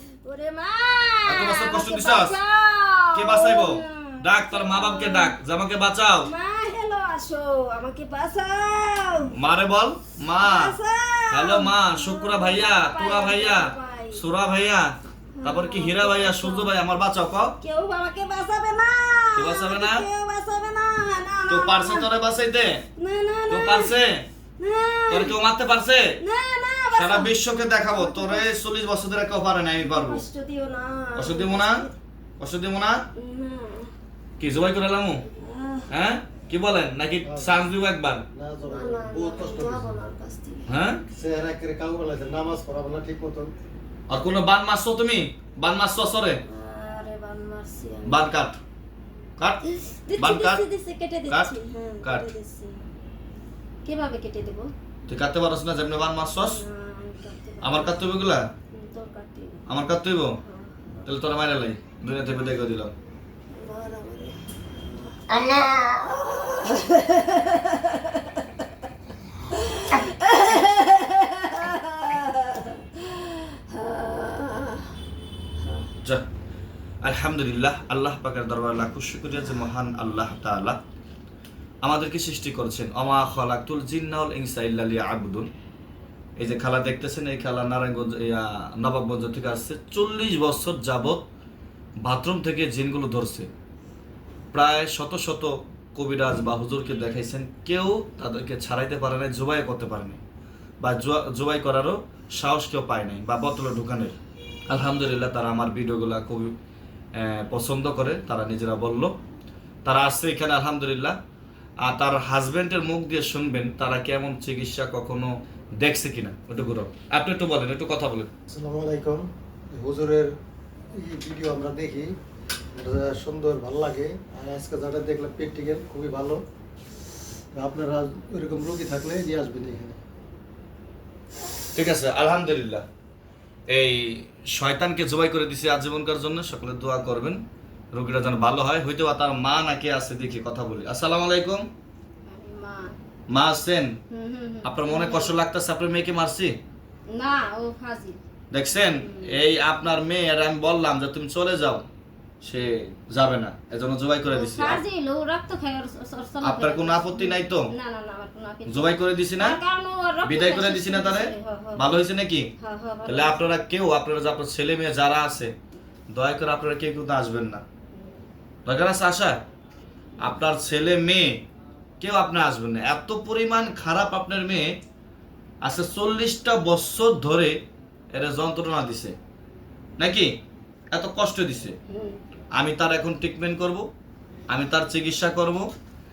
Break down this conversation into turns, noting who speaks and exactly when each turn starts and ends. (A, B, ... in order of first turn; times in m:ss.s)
0:00.2-0:05.4 A
0:01.3-0:02.4 B
0:03.1-0:06.3 B
0:06.2-0:09.4 A
0:09.3-0:10.8 B
0:10.4-0:14.2 A
0:11.3-0:17.6 B
0:15.4-0:16.7 A
0:17.6-0:22.1 A
0:19.4-0:20.0 B
0:21.5-0:22.8 B
0:23.0-0:24.0 A
0:23.5-0:24.3 B
0:24.6-0:25.4 A
0:25.1-0:26.2 B
0:26.2-0:27.3 A
0:26.9-0:30.2 B
0:27.9-0:28.5 A
0:29.9-0:31.9 A
0:31.2-0:31.9 B
0:32.4-0:33.0 B
0:33.2-0:33.9 A
0:34.4-0:35.2 B
0:35.4-0:36.0 A
0:35.9-0:38.2 B
0:37.2-0:37.6 C
0:38.3-0:39.9 C
0:38.7-0:40.7 A
0:40.7-0:41.0 B
0:41.1-0:43.5 C
0:44.1-0:46.4 B
0:46.5-0:48.3 A
0:48.1-0:48.6 B
0:49.7-0:52.8 A
0:50.2-0:50.6 B
0:51.3-0:52.3 B
0:53.8-0:54.7 A
0:55.1-0:56.6 B
0:56.4-0:58.0 A
0:57.6-0:58.5 B
0:58.7-0:59.6 A
0:59.7-1:00.4 B
1:00.4-1:01.1 A
1:01.0-1:02.9 B
1:03.6-1:08.4 A
1:05.3-1:06.0 B
1:09.5-1:14.9 A
1:17.0-1:20.8 B
1:21.8-1:25.5 B
1:26.4-1:31.2 B
1:32.0-1:33.5 B
1:34.5-1:40.2 B
1:40.8-1:44.2 B
1:44.7-1:46.5 B
1:47.2-1:49.1 B
1:49.8-1:51.2 B
1:51.8-1:58.3 B
1:58.5-2:00.3 C
2:01.0-2:02.1 C
2:02.7-2:06.4 C
2:07.5-2:10.0 C
2:11.7-2:12.8 B
2:13.7-2:17.4 B
2:17.9-2:21.7 B
2:22.3-2:22.9 A
2:23.3-2:24.0 B
2:24.1-2:25.4 A
2:24.6-2:26.6 B
2:27.1-2:28.2 A
2:28.5-2:31.9 B
2:29.0-2:29.4 A
2:32.4-2:34.8 B
2:34.3-2:41.9 A
2:36.4-2:37.7 B
2:38.7-2:39.6 B
2:40.2-2:42.5 B
2:42.6-2:43.4 A
2:43.1-2:45.5 B
2:46.1-2:47.6 B
2:47.9-2:48.2 A
2:48.7-2:49.4 B
2:50.2-2:51.4 B
2:52.0-2:54.8 B
2:55.6-2:57.6 B
2:58.1-2:59.2 B
3:00.0-3:00.3 B
3:00.9-3:01.8 B
3:01.9-3:02.2 A
3:02.6-3:03.9 B
3:04.5-3:05.7 B